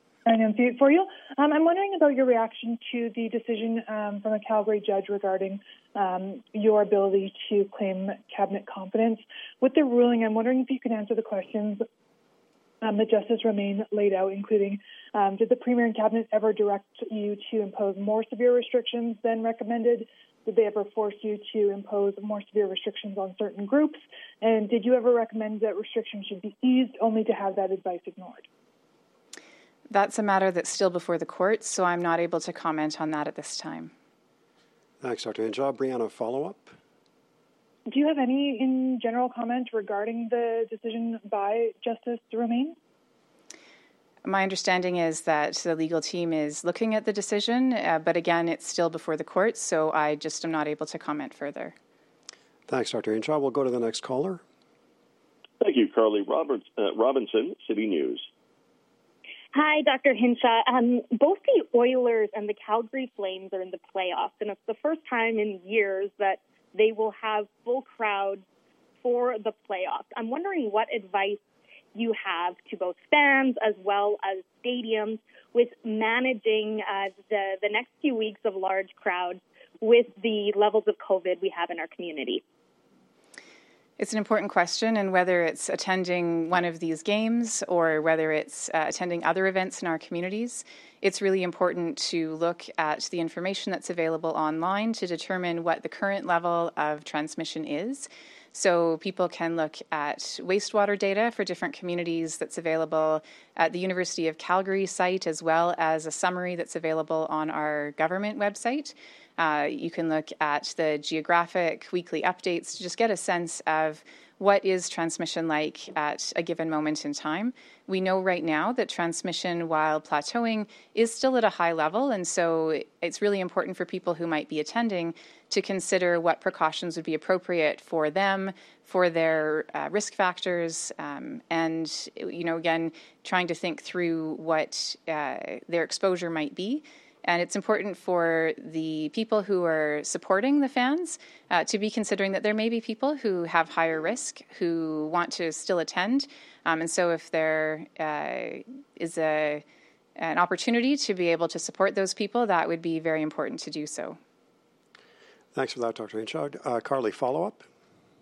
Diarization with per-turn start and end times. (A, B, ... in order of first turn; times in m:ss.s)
0:00.2-0:11.8 A
0:12.8-0:28.4 A
0:29.9-0:33.9 B
0:35.0-0:36.7 C
0:37.9-0:42.8 A
0:44.2-0:51.7 B
0:52.7-0:54.4 C
0:55.6-0:58.3 D
0:59.5-1:08.4 E
1:09.0-1:11.4 E
1:11.9-1:22.4 E
1:24.0-2:29.6 B
2:30.2-2:34.2 B
2:35.5-2:37.6 C